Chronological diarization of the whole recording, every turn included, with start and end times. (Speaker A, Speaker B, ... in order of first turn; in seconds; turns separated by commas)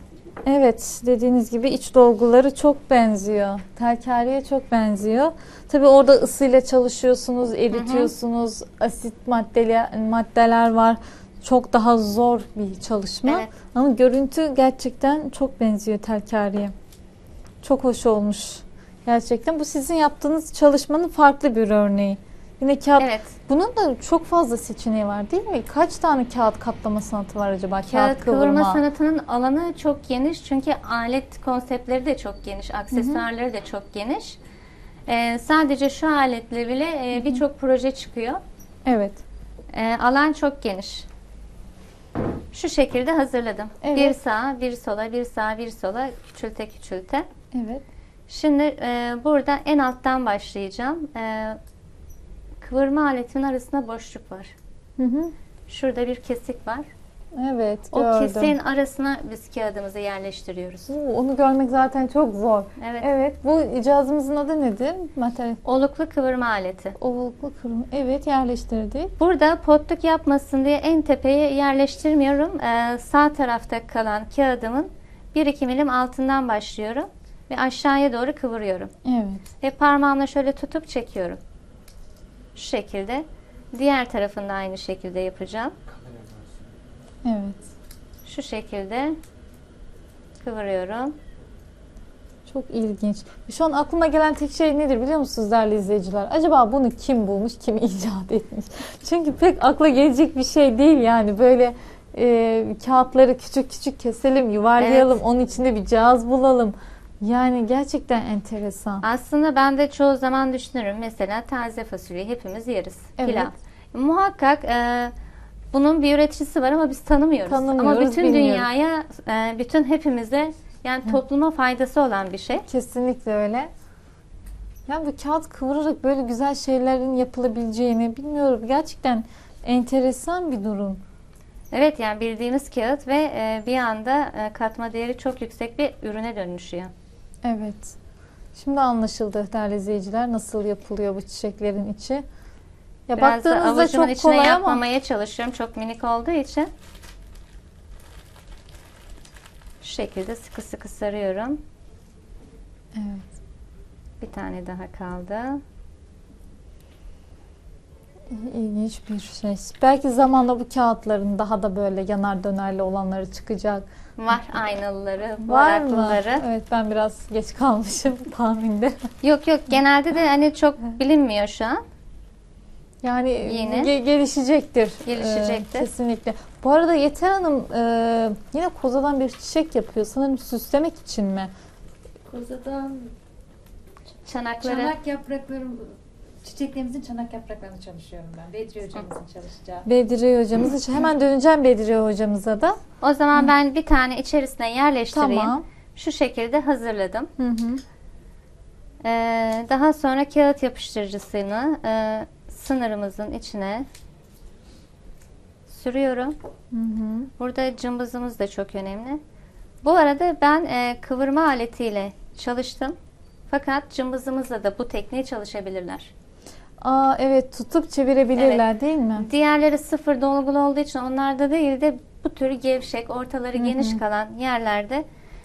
Speaker A: 0.5-16.7, Speaker B: 7.7-8.1, Speaker B: 13.3-13.5, Speaker A: 17.6-28.8, Speaker B: 23.0-23.3, Speaker B: 27.9-34.4, Speaker A: 32.9-33.2, Speaker B: 35.1-38.4, Speaker A: 37.2-37.4, Speaker A: 38.9-39.2, Speaker B: 39.7-41.1, Speaker B: 42.5-47.3, Speaker A: 43.8-44.2, Speaker A: 47.5-47.8, Speaker B: 48.3-51.6, Speaker B: 52.6-54.5, Speaker A: 55.0-55.3, Speaker B: 55.7-56.9, Speaker A: 57.4-58.5, Speaker B: 57.9-60.9, Speaker A: 60.9-65.6, Speaker B: 62.8-63.1, Speaker B: 65.6-67.0, Speaker A: 67.0-69.1, Speaker B: 69.2-78.9, Speaker A: 79.0-79.4, Speaker B: 79.6-81.4, Speaker B: 82.5-85.7, Speaker A: 87.2-87.7, Speaker B: 88.2-89.2, Speaker B: 90.4-91.2, Speaker A: 92.5-109.0, Speaker B: 104.8-105.1, Speaker B: 109.0-115.1, Speaker A: 113.2-113.5, Speaker B: 115.7-122.7, Speaker A: 117.5-118.7, Speaker A: 122.7-123.7, Speaker A: 124.9-131.0, Speaker B: 131.7-136.9, Speaker A: 137.4-137.9, Speaker A: 138.6-142.2, Speaker A: 143.1-144.8, Speaker B: 143.2-146.7, Speaker B: 149.8-151.6, Speaker A: 152.9-153.3, Speaker B: 154.2-155.6, Speaker A: 158.3-163.9, Speaker B: 164.2-166.4, Speaker A: 165.4-169.0, Speaker B: 169.2-171.8, Speaker A: 173.0-181.5, Speaker B: 173.4-173.9, Speaker B: 175.1-175.9, Speaker C: 182.3-183.1, Speaker B: 184.3-184.9, Speaker C: 184.6-185.9, Speaker C: 186.4-189.9, Speaker A: 189.9-192.8, Speaker B: 193.0-197.3, Speaker A: 195.1-195.6, Speaker A: 197.4-197.8, Speaker B: 199.0-203.9, Speaker B: 205.7-206.4, Speaker A: 206.7-207.3, Speaker B: 207.4-209.2, Speaker B: 209.8-213.0, Speaker B: 213.5-216.1, Speaker A: 216.8-219.3, Speaker B: 218.4-218.6, Speaker B: 219.2-225.1, Speaker A: 223.6-224.0